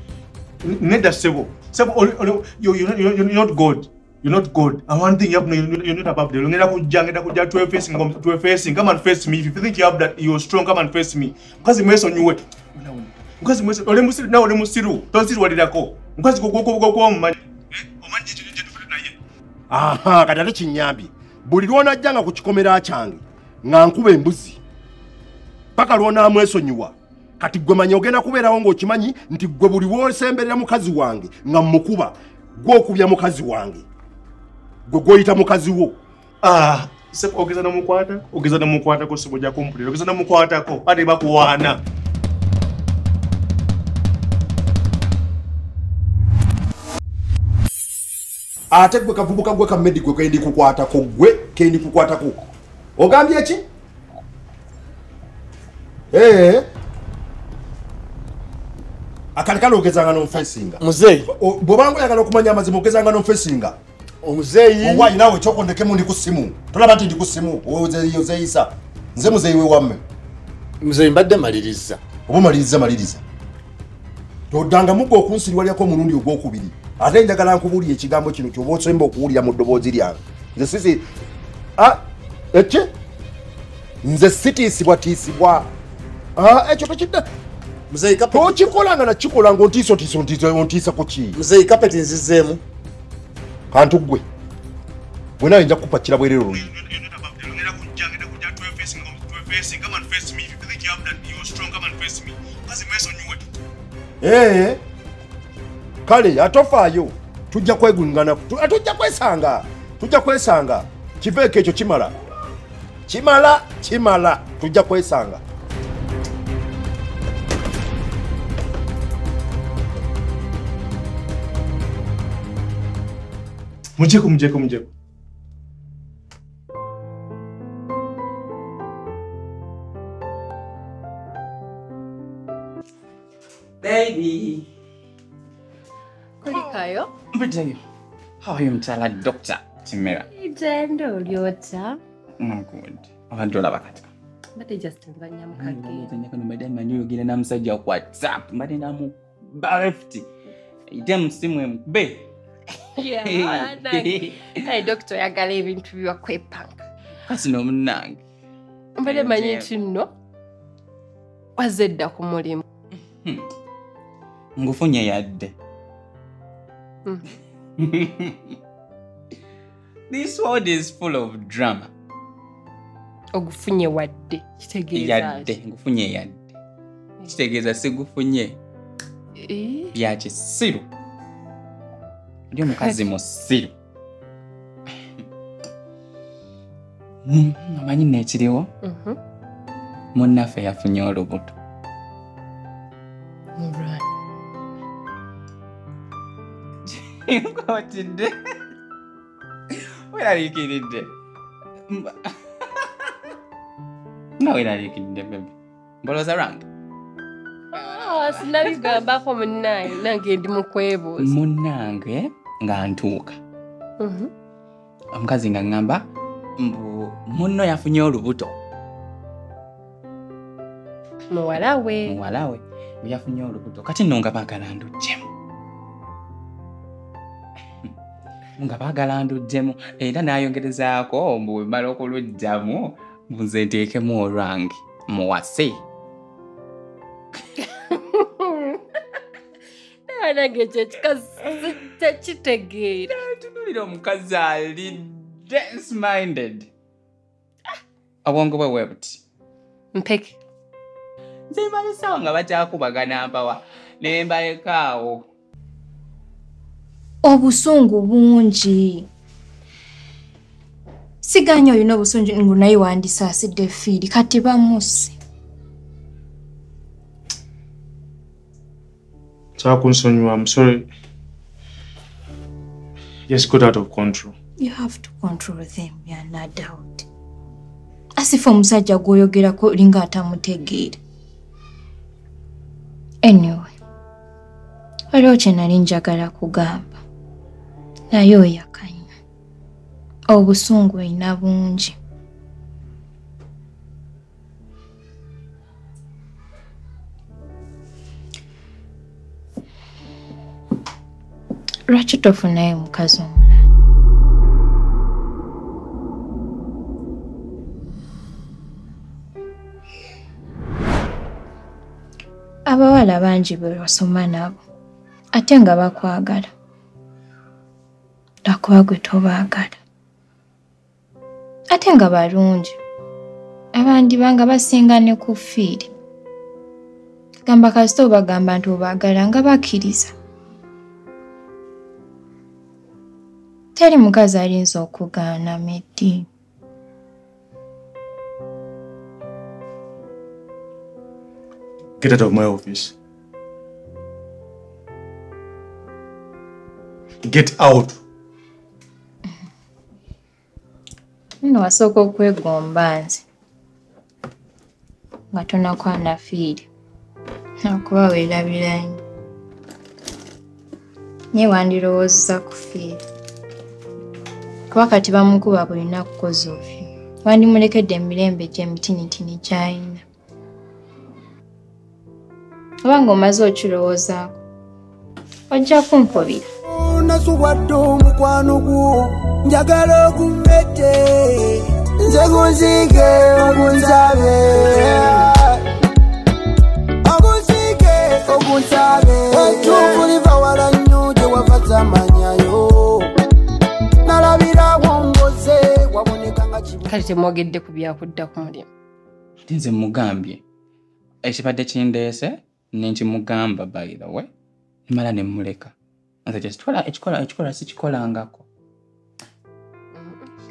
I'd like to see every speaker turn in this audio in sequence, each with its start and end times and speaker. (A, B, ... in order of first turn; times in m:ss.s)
0:00.6-0:19.1 A
0:19.7-0:24.6 B
0:25.7-0:33.8 B
0:34.9-0:36.0 B
0:36.4-0:41.8 A
0:48.7-0:53.6 B
0:56.1-0:56.6 B
0:59.4-1:03.8 B
1:00.8-1:01.3 C
1:04.2-1:05.1 C
1:04.8-1:10.0 B
1:10.8-1:12.0 C
1:12.3-1:13.2 B
1:14.5-1:21.0 B
1:22.5-1:22.9 B
1:24.0-1:25.7 B
1:26.4-1:27.2 B
1:27.9-1:28.7 C
1:28.3-1:31.4 B
1:31.3-1:32.6 C
1:33.7-1:34.2 B
1:35.4-1:36.7 B
1:36.5-1:43.4 A
1:44.2-1:44.8 B
1:46.0-1:52.1 B
1:53.1-1:55.4 B
2:04.0-2:04.9 A
2:13.8-2:14.6 D
2:16.4-2:17.1 E
2:17.3-2:17.8 D
2:18.4-2:20.2 D
2:20.3-2:22.0 E
2:22.4-2:24.1 D
2:24.5-2:26.1 E
2:25.6-2:30.3 D
2:30.9-2:32.3 D
2:33.0-2:36.8 E
2:33.3-2:34.4 D
2:37.2-2:38.2 D
2:39.0-2:40.1 E
2:39.0-2:39.7 D
2:41.6-2:42.6 E
2:44.6-2:45.5 D
2:47.8-2:48.5 D
2:50.1-2:51.9 D
2:53.3-2:55.5 E
2:54.9-2:56.5 D
2:57.3-2:58.6 D
2:59.4-2:59.9 E
2:59.9-3:00.9 D
3:02.5-3:03.7 D
3:07.2-3:08.7 D
3:08.8-3:09.2 E
3:10.1-3:11.5 D
3:13.6-3:14.0 E
3:16.8-3:18.3 D
3:20.1-3:21.1 D
3:21.9-3:23.1 D
3:24.4-3:25.5 D
3:26.0-3:26.6 D
3:27.7-3:31.3 E
3:27.8-3:29.0 D
3:31.2-3:33.4 D
3:34.0-3:34.3 E
3:35.1-3:36.0 D
3:36.6-3:38.6 D
3:41.3-3:42.1 E
3:42.0-3:45.3 D
3:48.6-3:55.8 D
3:57.7-3:58.8 E
4:00.1-4:03.1 E
4:03.1-4:06.7 D
4:08.2-4:09.2 D
4:09.9-4:10.4 E
4:11.5-4:15.2 D
4:17.2-4:19.0 F
4:21.2-4:25.1 F
4:29.6-4:30.9 A
4:33.3-4:34.3 A
4:34.6-4:37.0 F
4:38.2-4:41.0 F
4:43.2-4:43.7 F
4:45.1-4:47.0 F
4:48.1-4:49.1 F
4:50.3-4:51.9 F
5:01.9-5:03.6 F
5:12.6-5:14.6 F
5:15.3-5:16.5 F
5:18.4-5:19.8 F
5:21.7-5:22.8 F
5:23.7-5:25.9 F
5:27.4-5:30.1 F
5:33.7-5:36.3 F
5:42.0-5:42.9 A
5:47.2-5:48.0 A
5:51.4-5:53.2 F
5:55.3-5:56.6 F
5:57.6-5:59.0 F
6:01.3-6:03.0 F
6:04.7-6:10.0 F
6:12.8-6:14.4 F
6:15.5-6:16.4 F
6:16.7-6:25.6 G
6:27.0-6:33.1 G
6:34.0-6:36.9 G
6:36.8-6:38.7 E
6:39.5-6:40.4 D
6:41.2-6:44.3 D
6:44.9-6:45.7 D
6:46.2-6:48.4 D
6:49.9-6:50.3 E